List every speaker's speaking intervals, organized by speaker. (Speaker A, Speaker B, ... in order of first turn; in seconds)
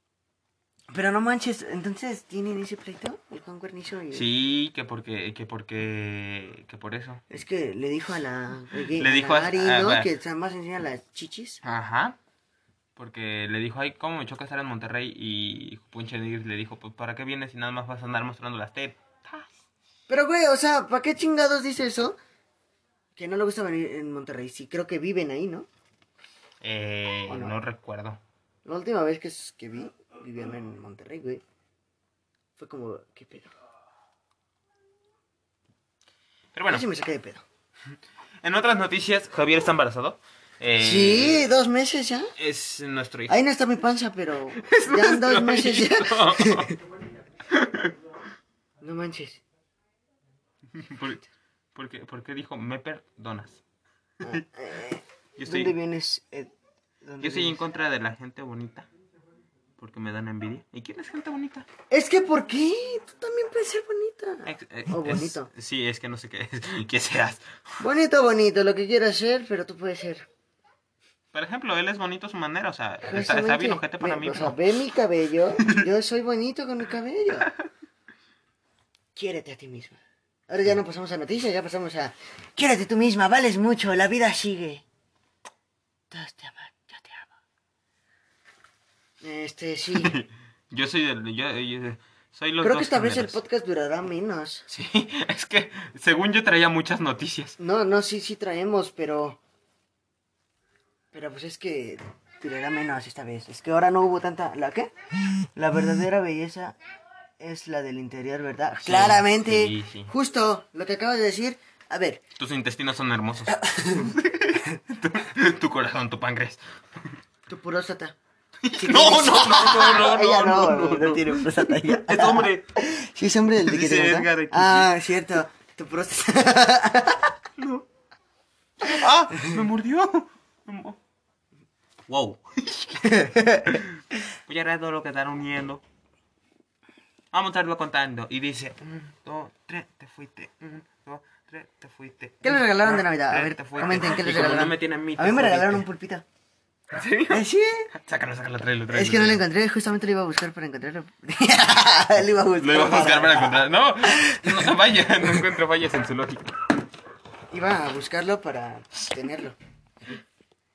Speaker A: 0.9-4.3, 7.3-11.6, 20.1-22.2, 23.1-25.7, 27.3-27.5, 28.6-31.4, 32.6-33.5, 36.7-37.4, 40.8-42.3, 43.3-46.7, 48.8-49.4, 54.2-56.5, 57.0-57.6, 61.9-65.5, 67.8-70.2, 73.0-77.5, 79.1-84.8, 86.1-87.3, 89.2-90.2, 92.6-94.7, 97.6-99.4, 101.1-104.9, 105.5-106.8, 107.4-112.2, 113.5-114.1, 117.5-118.2, 118.7-127.3, 133.0-133.8, 142.4-146.2, 147.3-147.9, 148.9-154.6, 157.5-159.6
Speaker B: 4.1-7.2, 8.9-10.1, 11.6-12.2, 12.9-19.5, 26.6-28.2, 36.5-36.9, 38.4-41.5, 42.4-43.4, 44.6-46.7, 47.5-47.9, 50.7-53.6, 55.4-55.7, 57.2-58.9, 59.8-61.7, 64.5-67.5, 71.3-74.6, 89.9-93.4, 94.7-97.5, 108.8-110.1, 112.4-117.1, 118.6-122.6, 123.6-124.9, 127.6-127.8, 128.8-131.0, 132.1-135.8, 137.3-145.8, 146.9-149.4, 152.6-156.5